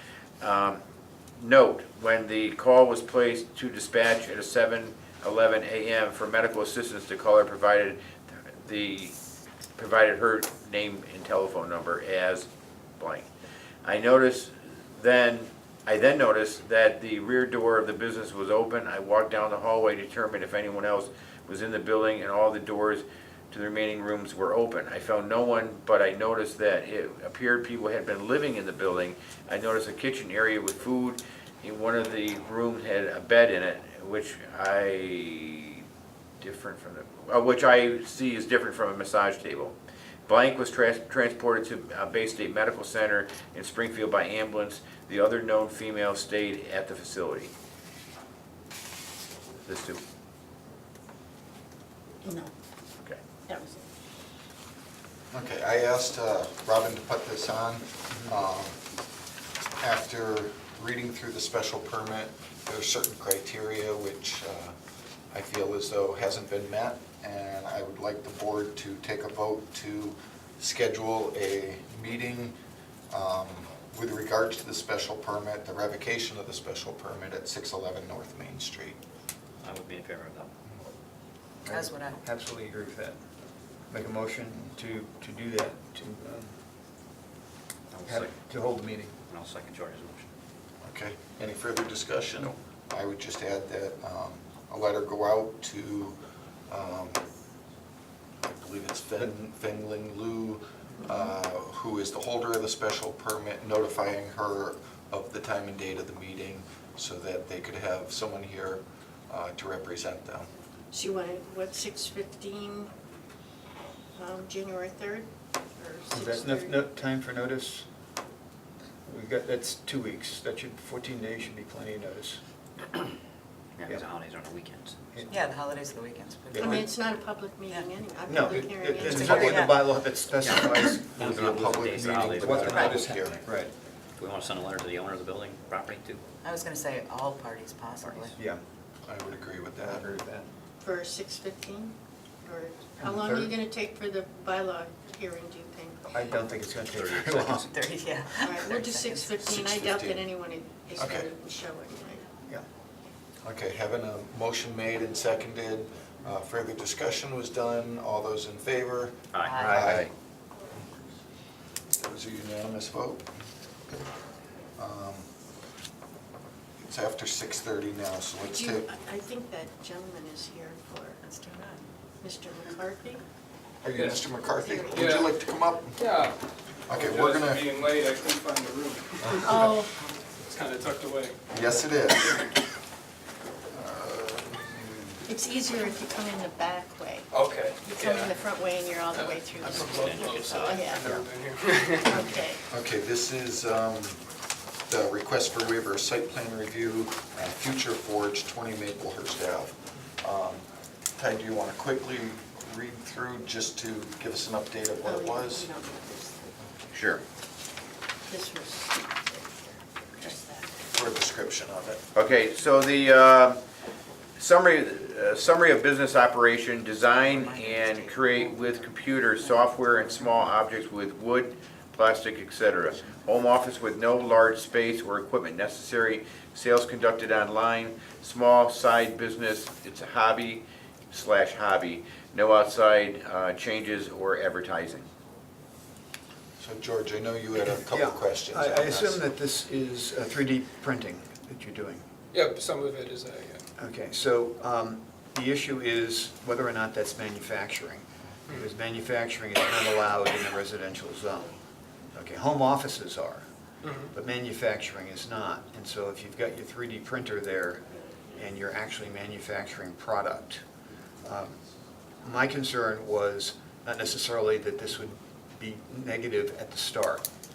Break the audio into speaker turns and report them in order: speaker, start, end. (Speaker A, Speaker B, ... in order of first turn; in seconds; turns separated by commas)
Speaker A: 0.4-0.8, Speaker A: 1.4-9.2, Speaker A: 9.8-12.5, Speaker A: 13.0-13.3, Speaker A: 13.8-35.9, Speaker A: 36.4-39.8, Speaker A: 40.3-47.5, Speaker A: 49.6-50.0, Speaker B: 52.2-52.5, Speaker B: 53.5-53.9, Speaker C: 55.3-58.8, Speaker C: 59.8-64.7, Speaker C: 65.3-72.6, Speaker C: 73.1-79.0, Speaker D: 79.6-80.5, Speaker E: 81.7-83.2, Speaker F: 81.7-82.2, Speaker E: 83.9-86.5, Speaker D: 87.9-88.3, Speaker E: 88.1-89.2, Speaker D: 89.3-90.3, Speaker C: 90.8-96.2, Speaker C: 96.7-97.2, Speaker C: 98.4-110.5, Speaker B: 110.9-112.9, Speaker B: 114.2-116.8, Speaker E: 116.1-117.9, Speaker E: 119.0-122.4, Speaker D: 123.8-125.0, Speaker F: 125.3-127.9, Speaker E: 126.5-126.8, Speaker B: 126.5-129.8, Speaker E: 128.3-133.7, Speaker F: 129.2-129.9, Speaker D: 130.1-133.1, Speaker C: 131.1-133.4, Speaker F: 132.7-133.1, Speaker D: 134.2-136.2, Speaker F: 136.4-138.4, Speaker E: 138.3-138.6, Speaker C: 139.1-140.1, Speaker E: 139.8-140.5, Speaker B: 140.8-141.9, Speaker B: 142.4-146.1, Speaker E: 143.0-143.6, Speaker E: 146.1-147.7, Speaker D: 146.9-147.7, Speaker F: 147.6-149.3, Speaker B: 148.4-152.2, Speaker C: 149.3-150.3, Speaker C: 151.0-151.3, Speaker C: 153.4-160.1, Speaker D: 159.3-159.6, Speaker F: 159.4-160.0, Speaker E: 159.6-160.0, Speaker A: 159.7-160.1, Speaker C: 161.9-163.3, Speaker C: 164.8-165.3, Speaker C: 166.8-168.9, Speaker B: 168.4-171.2, Speaker F: 171.2-171.9, Speaker B: 172.2-173.2, Speaker C: 173.8-176.1, Speaker G: 173.9-174.3, Speaker B: 174.4-175.1, Speaker G: 174.9-175.4, Speaker G: 176.0-179.8, Speaker C: 176.9-177.7, Speaker B: 179.4-180.0, Speaker G: 180.4-181.4, Speaker C: 181.5-182.4, Speaker G: 182.2-182.5, Speaker C: 183.7-185.2, Speaker B: 185.3-191.1, Speaker G: 187.3-188.4, Speaker G: 189.0-192.2, Speaker D: 189.6-190.9, Speaker E: 190.9-191.2, Speaker B: 192.0-192.6, Speaker E: 192.1-192.4, Speaker C: 192.7-194.2, Speaker C: 194.9-200.7, Speaker C: 201.2-205.7, Speaker B: 205.0-206.5, Speaker A: 206.9-207.2, Speaker B: 208.3-210.7, Speaker C: 210.9-212.1, Speaker A: 212.2-213.6, Speaker A: 214.4-235.1, Speaker F: 217.2-218.9, Speaker C: 236.6-239.2, Speaker E: 237.9-242.1, Speaker G: 242.3-243.7, Speaker E: 243.8-251.6, Speaker E: 252.1-253.5, Speaker G: 253.8-254.1, Speaker E: 254.1-260.6, Speaker E: 261.2-261.6, Speaker E: 262.2-267.3